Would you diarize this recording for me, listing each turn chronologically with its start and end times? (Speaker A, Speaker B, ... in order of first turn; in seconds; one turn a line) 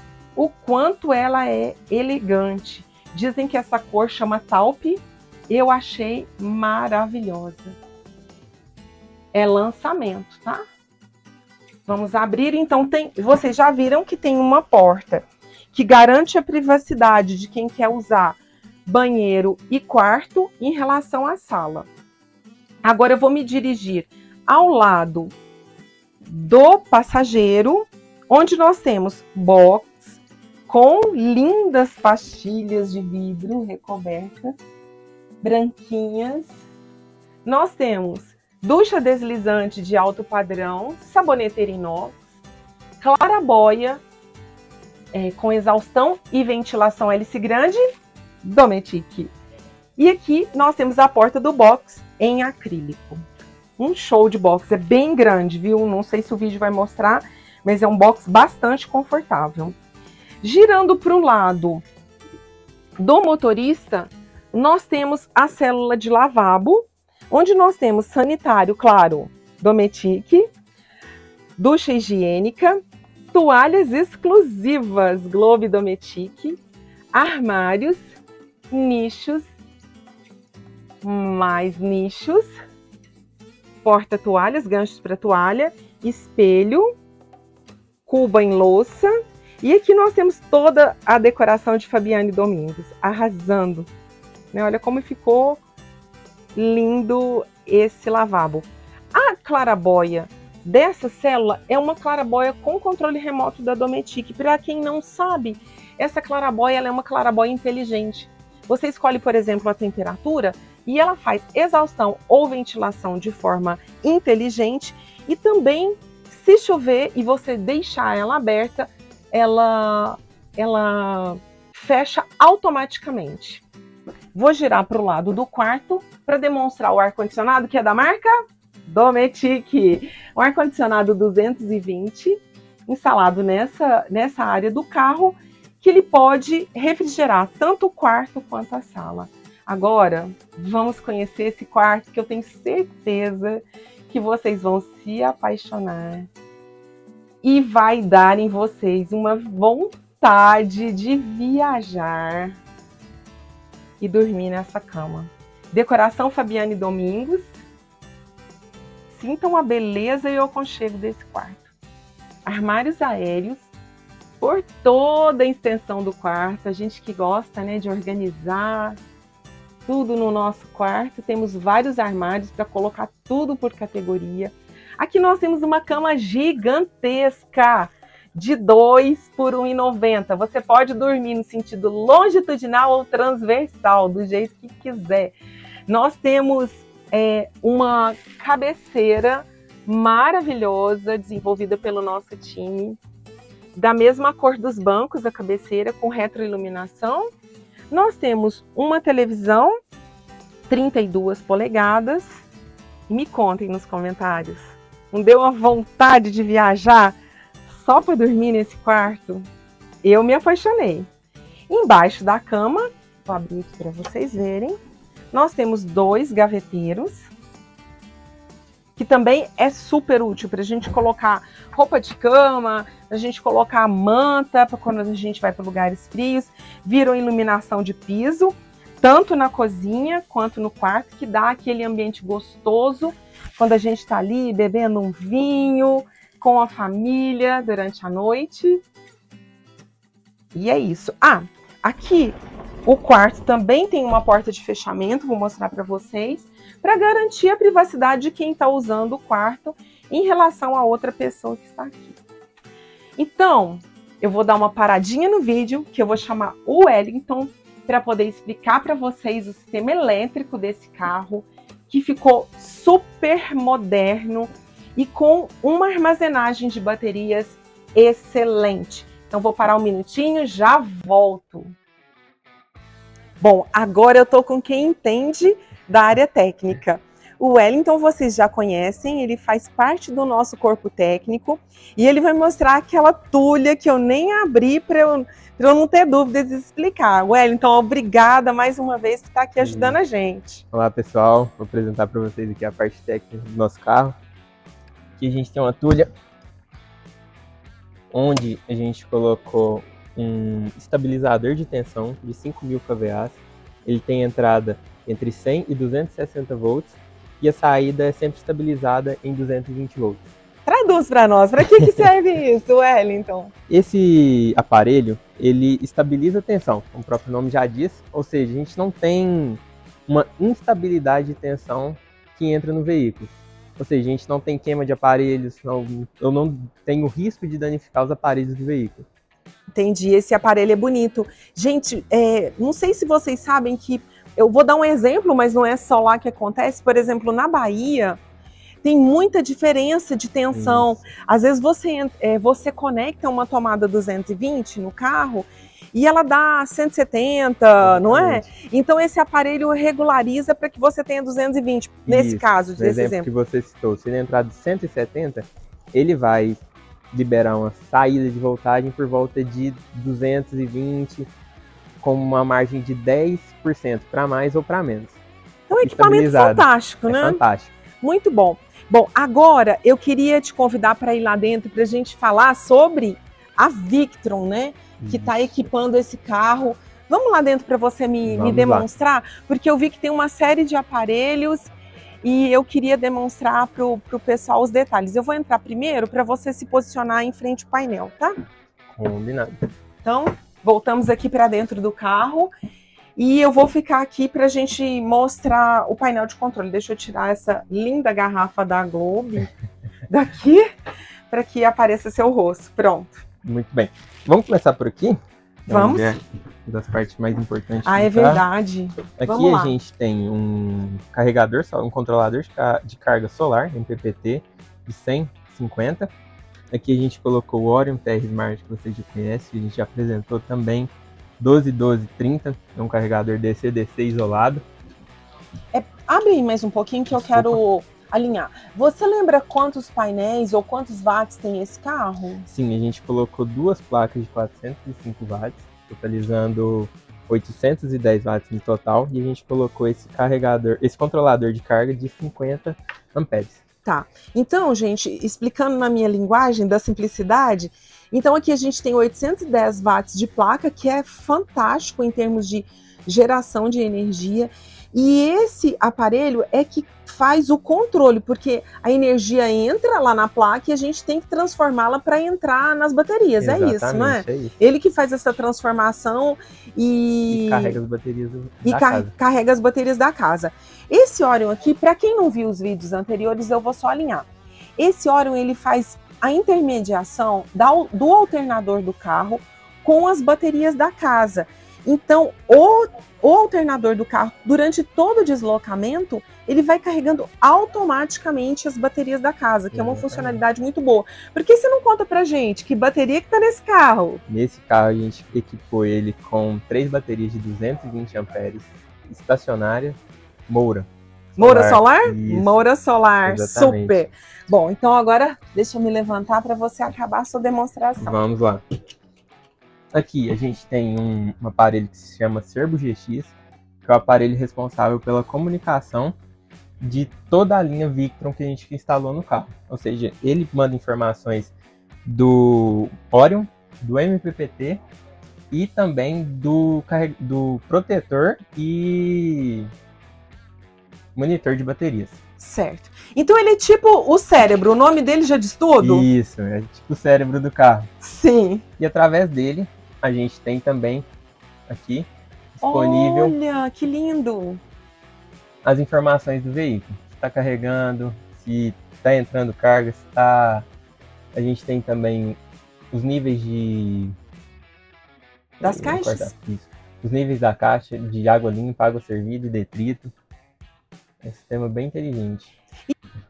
Speaker A: 0.4-7.8
Speaker A: 9.3-10.6
Speaker A: 11.9-21.9
Speaker A: 22.8-25.3
Speaker A: 26.3-34.6
Speaker A: 35.4-36.6
Speaker A: 37.5-42.2
Speaker A: 43.0-44.0
Speaker A: 45.1-47.8
Speaker A: 48.4-49.3
Speaker A: 50.0-53.2
Speaker A: 53.8-59.8
Speaker A: 60.4-61.8
Speaker A: 63.0-70.5
Speaker A: 71.6-72.8
Speaker A: 73.3-76.6
Speaker A: 77.1-78.1
Speaker A: 78.7-79.5
Speaker A: 81.0-82.5
Speaker A: 83.8-86.9
Speaker A: 88.1-93.9
Speaker A: 94.5-95.6
Speaker A: 96.6-123.6
Speaker A: 124.3-128.3
Speaker A: 128.8-146.3
Speaker A: 147.4-152.6
Speaker A: 154.0-157.6
Speaker A: 159.1-161.7
Speaker A: 162.5-163.7
Speaker A: 164.4-169.0
Speaker A: 169.9-185.4
Speaker A: 185.9-193.0
Speaker A: 193.8-197.3
Speaker A: 197.9-199.7
Speaker A: 200.7-202.4
Speaker A: 203.1-207.2
Speaker A: 207.7-209.5
Speaker A: 210.0-211.1
Speaker A: 211.7-214.8
Speaker A: 215.3-217.3
Speaker A: 219.0-238.8
Speaker A: 240.5-252.2
Speaker A: 253.2-271.7
Speaker A: 273.4-290.6
Speaker B: 289.6-290.0
Speaker B: 290.7-294.2
Speaker B: 295.2-296.1
Speaker B: 298.1-310.3
Speaker A: 310.7-313.5
Speaker B: 313.7-329.1
Speaker A: 329.8-338.2
Speaker A: 338.8-353.3
Speaker B: 340.5-341.0
Speaker B: 347.8-348.5
Speaker B: 352.1-356.6
Speaker B: 357.1-361.3
Speaker B: 362.0-365.2
Speaker A: 365.7-367.4
Speaker B: 365.8-367.7
Speaker A: 368.0-381.7
Speaker B: 375.0-375.5
Speaker B: 378.3-378.9
Speaker A: 382.2-388.3
Speaker B: 388.9-389.7
Speaker A: 390.0-392.5
Speaker A: 393.2-399.5
Speaker A: 400.1-400.7
Speaker A: 401.3-403.2
Speaker B: 403.4-408.5
Speaker A: 405.7-406.1
Speaker A: 407.9-409.8
Speaker B: 409.2-416.1
Speaker B: 416.7-424.6
Speaker A: 425.7-432.5
Speaker B: 427.3-427.6
Speaker B: 432.5-443.6
Speaker A: 443.9-467.8
Speaker B: 463.4-464.6
Speaker B: 467.3-469.1
Speaker A: 468.6-474.3
Speaker A: 474.8-494.2
Speaker B: 489.7-490.4
Speaker B: 494.3-500.0
Speaker B: 500.5-502.6
Speaker A: 501.4-508.2
Speaker B: 503.3-504.0
Speaker B: 508.0-508.6
Speaker B: 509.9-513.3
Speaker B: 513.8-516.2
Speaker B: 516.8-521.5
Speaker B: 522.1-524.8
Speaker B: 525.5-529.7
Speaker B: 531.1-532.2
Speaker A: 532.4-536.1
Speaker B: 535.8-537.9
Speaker A: 538.0-538.6
Speaker B: 538.8-541.1
Speaker B: 541.7-543.4
Speaker A: 542.6-544.6
Speaker B: 545.6-550.7
Speaker B: 551.3-552.4
Speaker B: 552.9-554.1
Speaker B: 555.6-560.1
Speaker A: 555.6-556.3
Speaker B: 561.2-562.5